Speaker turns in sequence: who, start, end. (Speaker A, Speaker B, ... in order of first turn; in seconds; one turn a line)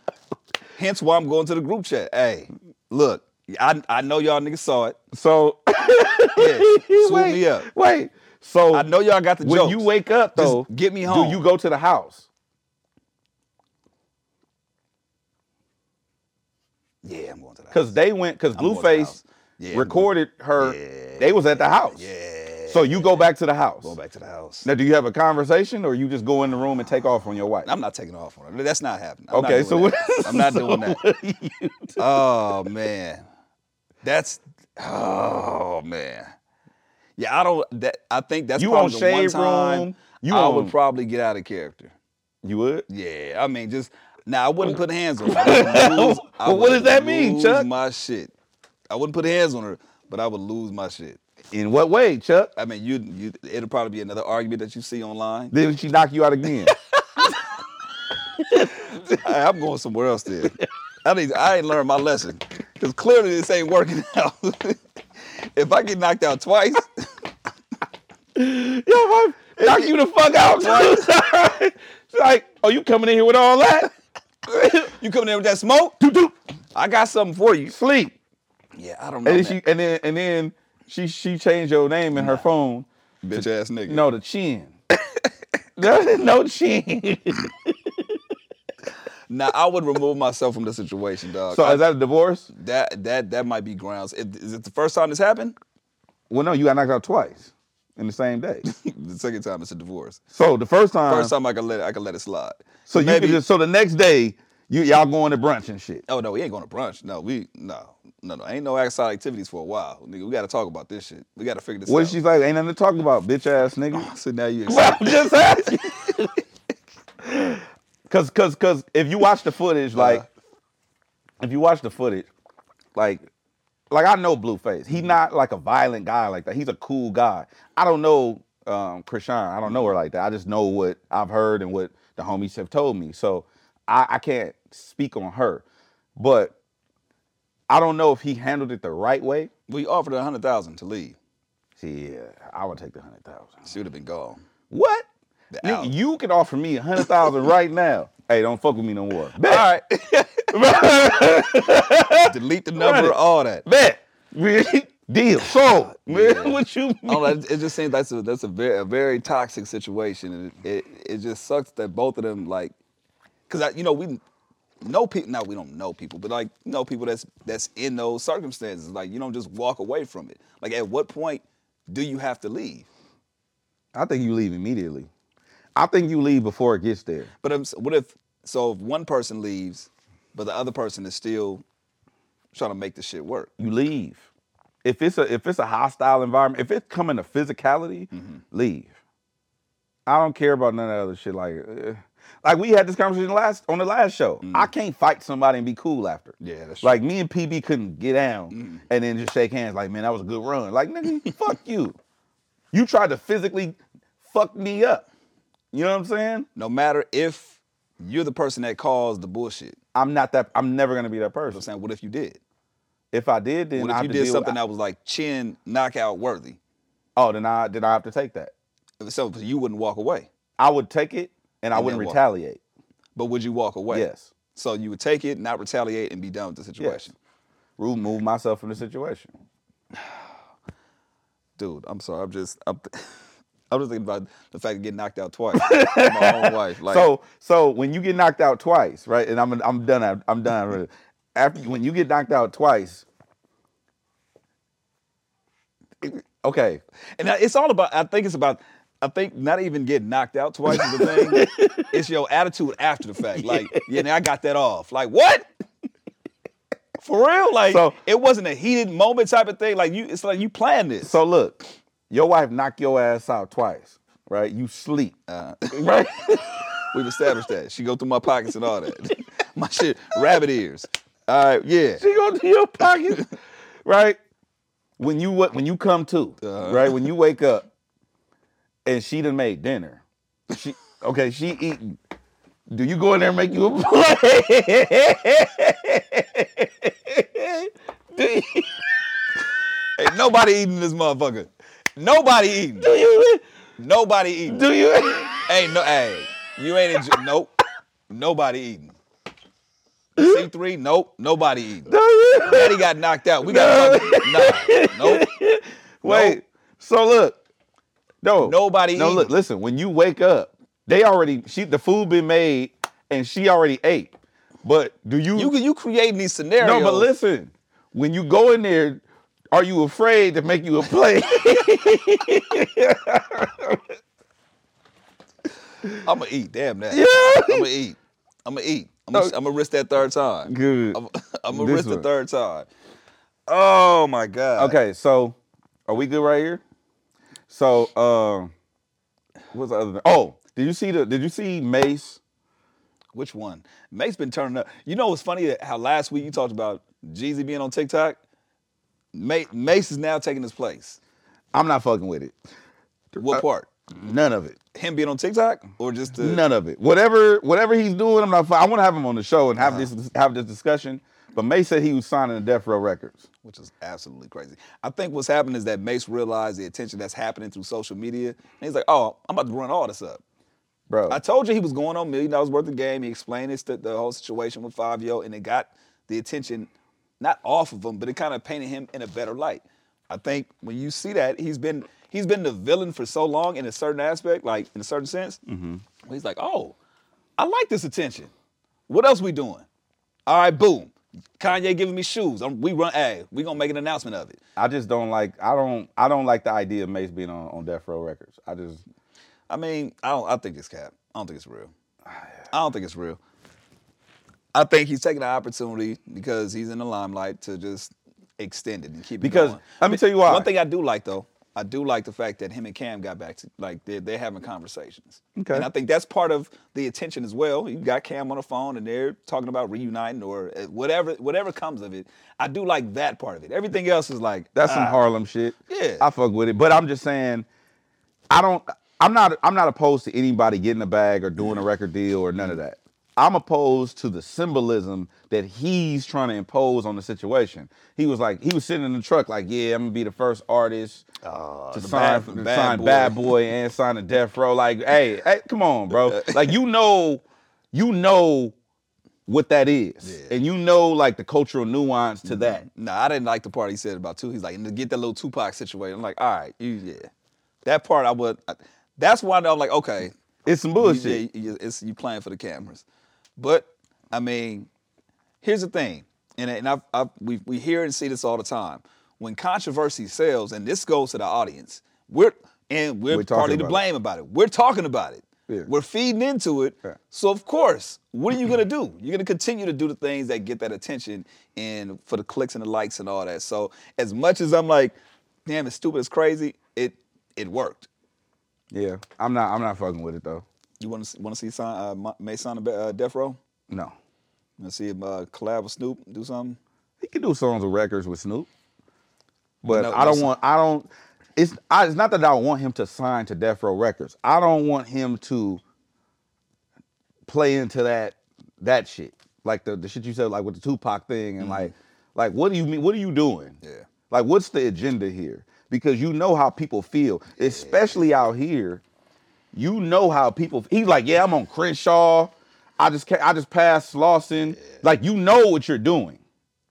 Speaker A: 0.8-5.0
Speaker B: 5.1-8.9
Speaker A: 6.4-7.7
Speaker A: 8.7-11.4
Speaker B: 9.4-12.3
Speaker A: 17.0-17.9
Speaker B: 17.7-19.2
Speaker A: 18.6-23.3
Speaker B: 19.7-22.1
Speaker B: 22.7-23.9
Speaker A: 23.8-24.7
Speaker B: 24.6-27.7
Speaker A: 27.6-31.0
Speaker B: 29.3-32.2
Speaker A: 32.0-33.2
Speaker A: 34.0-36.3
Speaker A: 37.2-41.9
Speaker B: 38.6-40.7
Speaker B: 42.4-42.9
Speaker A: 42.9-48.3
Speaker B: 45.3-47.7
Speaker A: 48.9-51.2
Speaker B: 51.5-52.5
Speaker A: 52.6-55.5
Speaker B: 55.5-56.8
Speaker B: 58.4-59.2
Speaker A: 59.1-64.8
Speaker A: 65.4-67.1
Speaker B: 68.3-73.9
Speaker A: 69.6-71.1
Speaker B: 74.5-74.9
Speaker A: 74.8-76.0
Speaker B: 76.0-76.3
Speaker A: 76.7-77.8
Speaker B: 77.7-78.2
Speaker A: 78.8-79.6
Speaker B: 79.2-84.8
Speaker A: 82.2-82.5
Speaker A: 83.2-84.0
Speaker B: 85.8-88.2
Speaker A: 89.3-91.8
Speaker B: 91.5-92.5
Speaker A: 92.5-95.6
Speaker B: 96.3-98.7
Speaker A: 98.7-100.2
Speaker B: 100.3-101.3
Speaker A: 101.1-103.4
Speaker B: 102.9-106.0
Speaker A: 106.1-112.2
Speaker B: 111.9-114.1
Speaker A: 113.9-115.8
Speaker B: 114.7-116.4
Speaker B: 117.2-120.2
Speaker A: 119.9-120.3
Speaker B: 121.4-122.3
Speaker B: 123.0-123.2
Speaker B: 123.9-135.6
Speaker B: 136.2-136.6
Speaker B: 137.7-139.5
Speaker A: 139.7-141.2
Speaker B: 141.8-143.7
Speaker A: 143.7-144.4
Speaker B: 144.7-145.1
Speaker A: 145.5-145.9
Speaker B: 145.6-149.7
Speaker A: 149.4-150.6
Speaker B: 150.5-157.4
Speaker A: 152.2-153.7
Speaker A: 155.9-162.7
Speaker A: 163.5-164.2
Speaker A: 164.8-172.9
Speaker B: 173.9-175.1
Speaker B: 175.8-177.3
Speaker A: 177.4-181.6
Speaker A: 182.5-183.5
Speaker B: 183.6-184.2
Speaker B: 184.8-188.9
Speaker A: 188.1-188.4
Speaker B: 190.1-202.0
Speaker A: 194.4-194.7
Speaker A: 196.4-197.0
Speaker A: 198.5-198.8
Speaker B: 202.7-205.1
Speaker B: 205.7-206.5
Speaker A: 206.6-209.8
Speaker B: 209.9-211.7
Speaker A: 211.5-212.4
Speaker B: 213.1-214.6
Speaker A: 213.8-216.6
Speaker B: 217.2-218.5
Speaker A: 219.0-220.3
Speaker B: 220.6-222.6
Speaker A: 221.7-222.2
Speaker A: 223.2-227.2
Speaker B: 223.9-224.3
Speaker B: 227.8-229.3
Speaker A: 231.6-233.1
Speaker A: 233.7-237.1
Speaker B: 235.6-243.0
Speaker B: 246.0-246.8
Speaker A: 247.2-255.5
Speaker B: 250.7-251.9
Speaker B: 253.4-254.0
Speaker A: 257.0-261.1
Speaker B: 257.7-258.0
Speaker B: 261.0-265.2
Speaker A: 265.3-265.9
Speaker B: 265.7-266.9
Speaker A: 266.9-272.0
Speaker B: 272.0-273.3
Speaker B: 273.9-274.2
Speaker B: 275.0-277.7
Speaker A: 276.4-277.1
Speaker B: 278.9-282.0
Speaker B: 282.7-288.9
Speaker A: 290.0-292.9
Speaker B: 292.8-293.4
Speaker A: 293.8-294.6
Speaker B: 294.5-295.5
Speaker A: 295.5-297.5
Speaker A: 298.1-299.0
Speaker B: 300.2-300.4
Speaker A: 300.2-305.3
Speaker B: 301.9-302.8
Speaker B: 303.4-307.4
Speaker A: 306.0-306.4
Speaker B: 308.2-314.1
Speaker A: 308.4-309.4
Speaker B: 314.6-315.5
Speaker A: 315.4-317.1
Speaker B: 316.6-323.8
Speaker A: 326.0-332.7
Speaker B: 326.9-327.7
Speaker B: 330.5-331.0
Speaker B: 331.5-332.1
Speaker A: 333.5-334.8
Speaker B: 334.6-335.4
Speaker B: 335.9-336.6
Speaker B: 337.5-338.5
Speaker B: 339.5-342.2
Speaker A: 343.1-348.2
Speaker A: 349.1-351.0
Speaker B: 351.5-352.4
Speaker A: 353.2-353.7
Speaker B: 353.2-354.6
Speaker A: 354.7-356.4
Speaker B: 356.2-363.2
Speaker A: 359.6-359.9
Speaker A: 363.4-370.2
Speaker B: 370.9-371.2
Speaker A: 371.1-385.4
Speaker B: 385.5-385.8
Speaker A: 386.1-386.8
Speaker A: 387.4-388.3
Speaker A: 388.9-389.7
Speaker A: 390.3-394.4
Speaker B: 394.6-398.8
Speaker A: 399.5-401.7
Speaker A: 402.5-403.2
Speaker A: 404.5-425.0
Speaker B: 409.2-410.5
Speaker B: 415.4-415.7
Speaker B: 424.6-427.5
Speaker A: 425.7-426.1
Speaker B: 428.3-441.0
Speaker A: 441.2-443.4
Speaker B: 441.7-448.6
Speaker A: 445.9-446.6
Speaker B: 449.3-452.6
Speaker A: 450.0-450.3
Speaker A: 452.2-457.1
Speaker A: 457.6-460.1
Speaker B: 460.5-461.2
Speaker A: 460.8-462.9
Speaker A: 463.4-464.7
Speaker A: 465.4-487.9
Speaker B: 473.1-473.8
Speaker B: 488.7-490.4
Speaker A: 490.8-493.4
Speaker B: 493.7-493.9
Speaker A: 494.6-496.6
Speaker B: 497.0-498.5
Speaker B: 499.6-505.6
Speaker A: 499.7-500.3
Speaker B: 507.3-513.6
Speaker A: 511.4-511.7
Speaker A: 513.6-513.9
Speaker B: 514.1-518.8
Speaker B: 519.5-526.2